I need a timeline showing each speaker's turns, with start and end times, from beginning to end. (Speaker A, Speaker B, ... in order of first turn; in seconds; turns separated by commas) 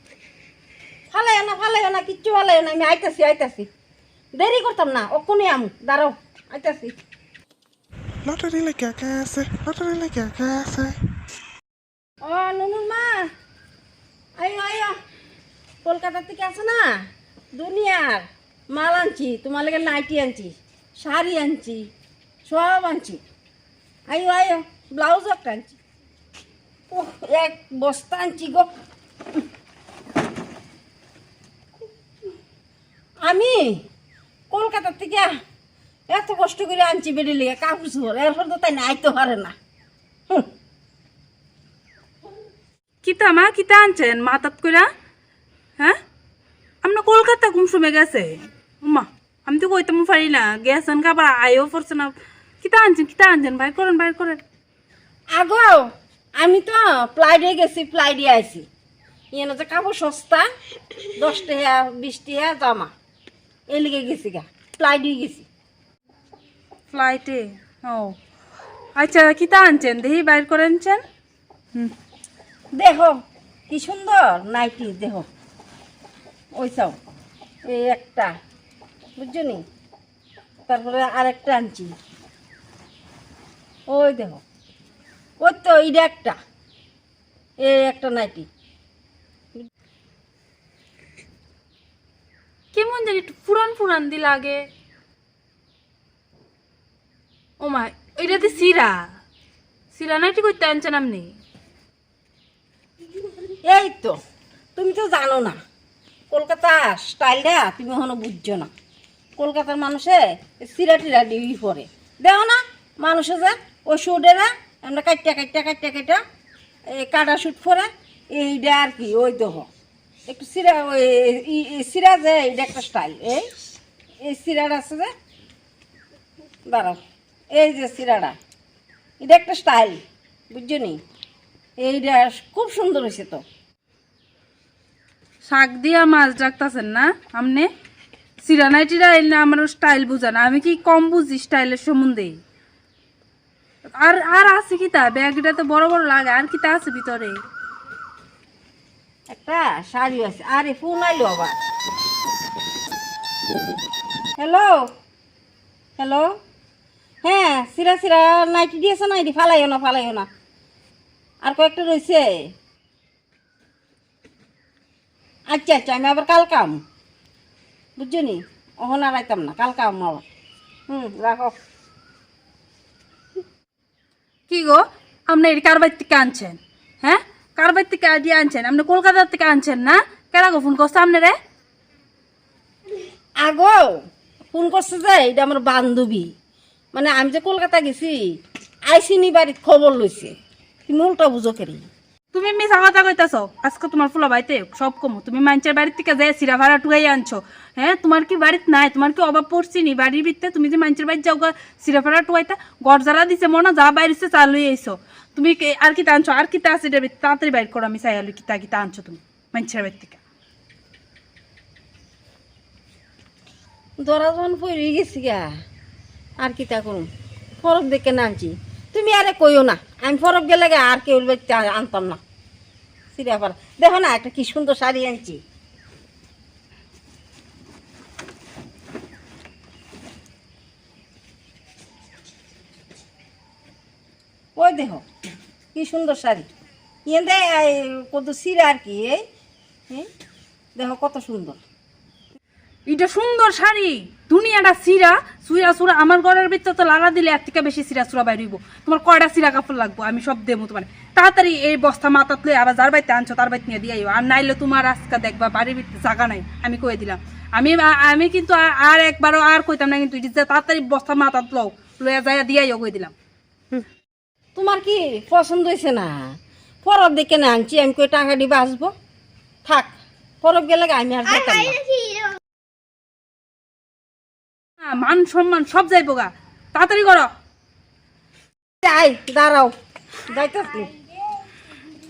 Speaker A: 1.1-3.7, Speaker A: 4.3-6.9, Speaker B: 8.2-11.0, Speaker A: 12.2-13.3, Speaker A: 14.4-14.9, Speaker A: 15.8-17.0, Speaker A: 17.5-21.9, Speaker A: 22.4-23.2, Speaker A: 24.1-25.8, Speaker A: 26.9-28.7, Speaker A: 33.2-33.8, Speaker A: 34.5-35.3, Speaker A: 36.1-39.5, Speaker C: 43.0-44.9, Speaker C: 46.8-54.4, Speaker A: 55.3-55.9, Speaker A: 56.4-58.6, Speaker A: 59.3-60.4, Speaker A: 61.1-62.9, Speaker A: 63.7-65.5, Speaker C: 66.9-68.1, Speaker C: 69.0-71.0, Speaker A: 72.8-73.1, Speaker A: 73.7-75.3, Speaker A: 76.6-77.0, Speaker A: 77.7-78.3, Speaker A: 79.2-79.6, Speaker A: 80.7-81.9, Speaker A: 83.9-84.4, Speaker A: 85.4-86.4, Speaker A: 87.6-88.5, Speaker C: 92.7-94.6, Speaker C: 97.6-99.1, Speaker C: 99.9-101.3, Speaker A: 103.6-104.2, Speaker A: 104.8-105.6, Speaker A: 106.3-108.7, Speaker A: 109.4-116.2, Speaker A: 116.9-119.7, Speaker A: 120.3-123.4, Speaker A: 124.2-125.1, Speaker A: 126.7-127.0, Speaker A: 127.5-128.3, Speaker A: 129.2-130.0, Speaker A: 130.5-131.0, Speaker A: 131.8-133.4, Speaker C: 135.4-137.7, Speaker C: 138.4-142.3, Speaker C: 143.9-147.4, Speaker A: 149.3-151.6, Speaker A: 154.4-154.9, Speaker A: 156.0-156.3, Speaker A: 157.2-160.3, Speaker A: 161.4-162.3, Speaker A: 165.5-166.8, Speaker A: 168.0-170.2, Speaker A: 170.9-171.5, Speaker C: 174.5-181.3, Speaker A: 183.4-184.0, Speaker A: 184.5-186.3, Speaker A: 186.9-188.2, Speaker A: 188.9-190.3, Speaker A: 190.9-191.8, Speaker C: 192.3-210.2, Speaker A: 214.0-215.5, Speaker A: 216.4-217.1, Speaker A: 217.6-222.2, Speaker A: 223.1-225.4, Speaker A: 234.6-235.0, Speaker A: 235.7-236.5, Speaker A: 237.1-239.2, Speaker A: 240.8-241.6, Speaker C: 242.9-263.1, Speaker A: 264.6-266.3, Speaker A: 266.8-268.9, Speaker A: 269.6-271.9, Speaker C: 274.8-277.3, Speaker A: 278.8-279.7, Speaker A: 280.3-280.9